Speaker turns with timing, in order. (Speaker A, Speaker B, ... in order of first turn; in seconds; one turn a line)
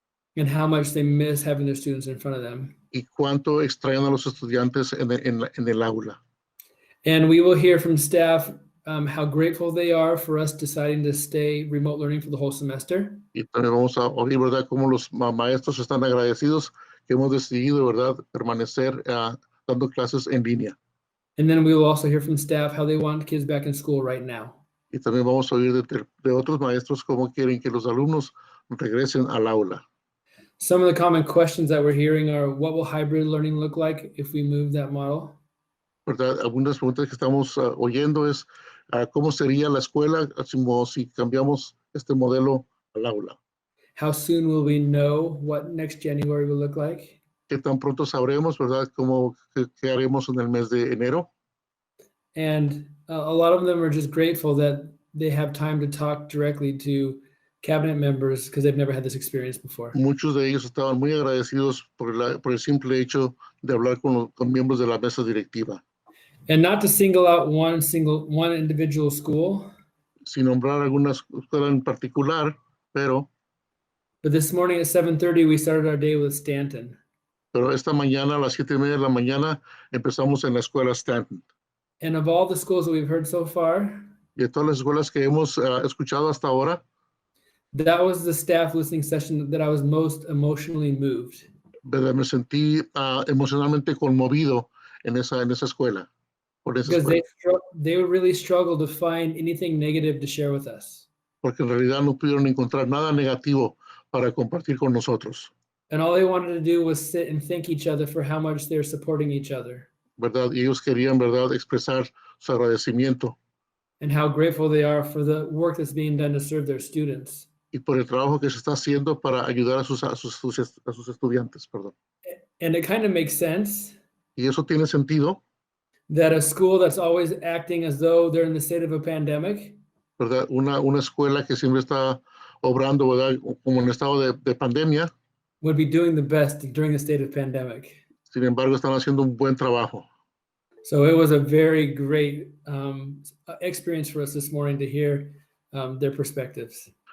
Speaker A: 0.4-2.8
Speaker B: 2.9-6.2
Speaker A: 7.0-13.2
Speaker B: 13.3-20.8
Speaker A: 21.4-24.6
Speaker B: 24.9-29.8
Speaker A: 30.6-35.4
Speaker B: 36.1-43.4
Speaker A: 44.0-47.2
Speaker B: 47.5-51.3
Speaker A: 52.3-60.0
Speaker B: 60.0-65.8
Speaker A: 66.5-69.7
Speaker B: 70.3-73.3
Speaker A: 74.2-77.0
Speaker B: 77.5-81.4
Speaker A: 82.0-84.1
Speaker B: 84.4-86.8
Speaker A: 87.7-91.5
Speaker B: 91.8-96.1
Speaker B: 96.7-97.2
Speaker A: 96.9-101.0
Speaker B: 101.4-105.5
Speaker A: 105.9-109.9
Speaker B: 110.2-113.3
Speaker A: 114.0-117.5
Speaker B: 117.7-121.9
Speaker A: 122.6-124.0
Speaker B: 124.4-125.4
Speaker A: 126.1-129.8
Speaker B: 130.2-135.1
Speaker A: 135.6-138.0
Speaker B: 138.3-140.1
Speaker A: 140.8-146.9